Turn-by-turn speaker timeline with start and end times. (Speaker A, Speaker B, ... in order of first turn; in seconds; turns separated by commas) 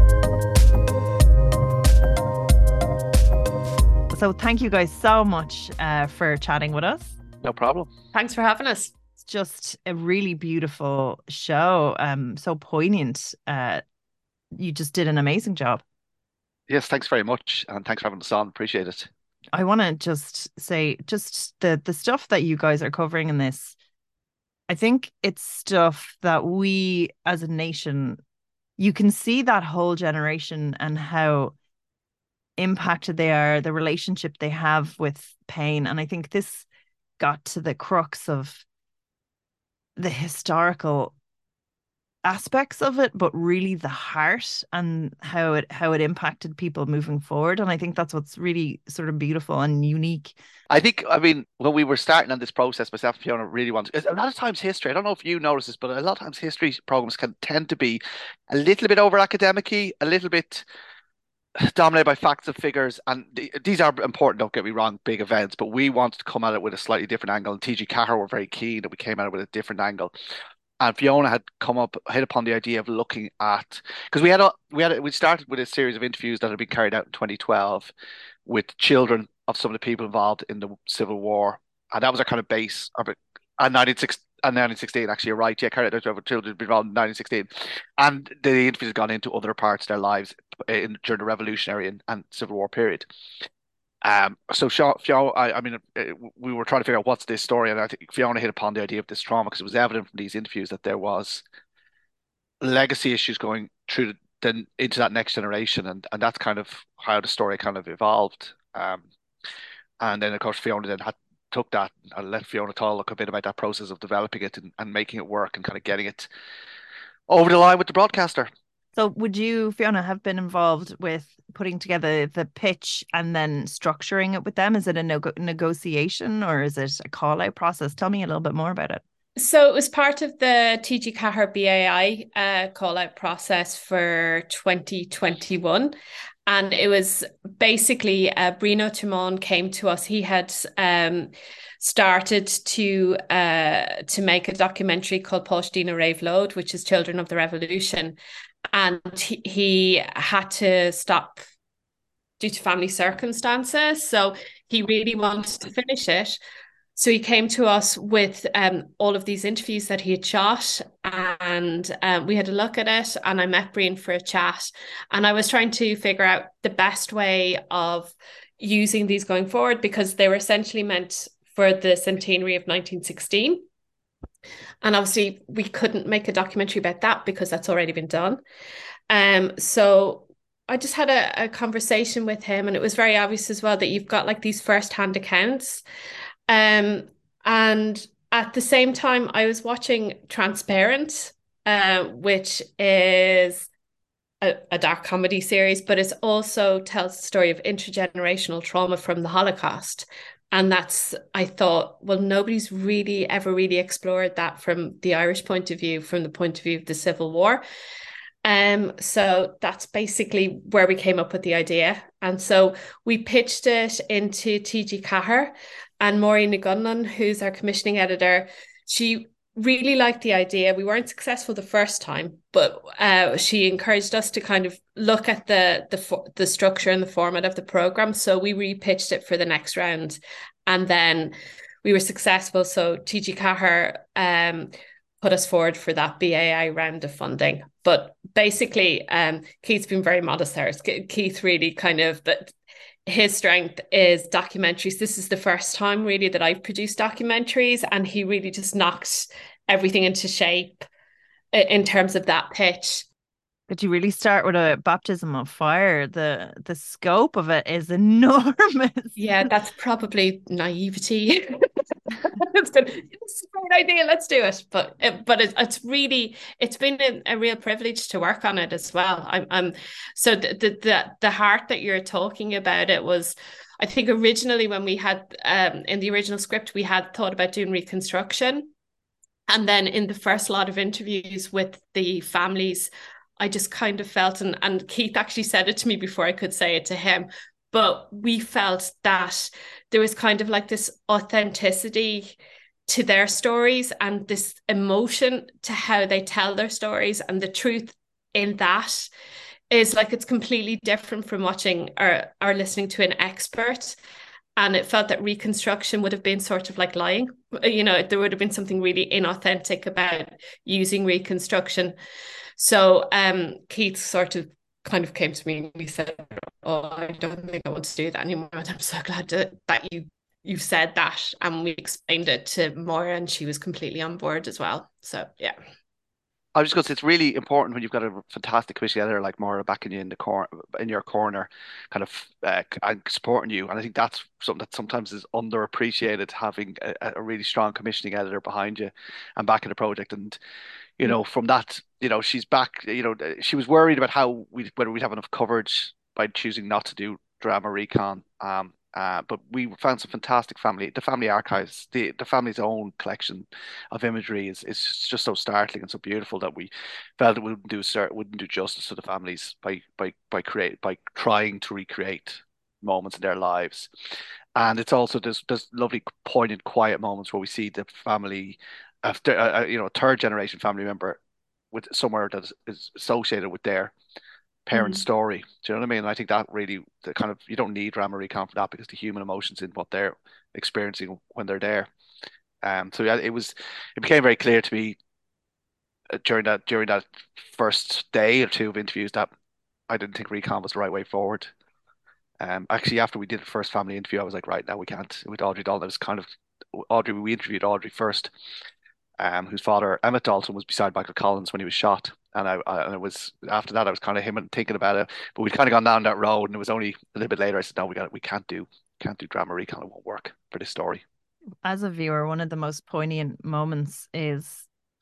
Speaker A: 4.1-7.2, Speaker B: 7.4-7.9, Speaker C: 8.1-8.9, Speaker A: 9.2-13.8, Speaker A: 14.5-15.8, Speaker B: 16.7-19.1, Speaker A: 19.5-23.8, Speaker A: 24.7-28.2, Speaker A: 28.8-31.5, Speaker A: 32.6-36.7, Speaker A: 37.2-38.6, Speaker A: 40.0-41.1, Speaker A: 42.2-50.3, Speaker B: 50.7-60.6, Speaker B: 61.6-70.1, Speaker B: 70.8-77.9, Speaker B: 78.5-93.1, Speaker B: 94.0-101.4, Speaker B: 102.6-109.1, Speaker B: 110.0-116.3, Speaker B: 117.3-118.5, Speaker A: 119.0-129.0, Speaker C: 129.4-135.9, Speaker C: 136.5-148.2, Speaker C: 148.7-151.4, Speaker C: 152.4-156.4, Speaker C: 157.0-173.6, Speaker C: 174.8-178.4, Speaker C: 179.1-185.8, Speaker C: 186.5-193.7, Speaker C: 194.4-207.6, Speaker C: 208.4-242.5, Speaker C: 243.1-250.9, Speaker C: 251.5-253.1, Speaker A: 253.7-259.2, Speaker C: 259.2-278.7, Speaker C: 279.5-292.4, Speaker C: 292.9-299.1, Speaker C: 299.7-304.0, Speaker C: 304.6-311.9, Speaker C: 312.6-325.6, Speaker B: 326.6-340.4, Speaker B: 341.0-363.9, Speaker B: 364.6-371.2, Speaker B: 371.7-373.9, Speaker B: 374.7-381.9, Speaker C: 374.7-375.0, Speaker B: 382.6-385.0, Speaker B: 386.1-389.3, Speaker B: 389.9-391.5, Speaker B: 392.4-398.3, Speaker B: 399.2-411.0, Speaker A: 411.6-414.7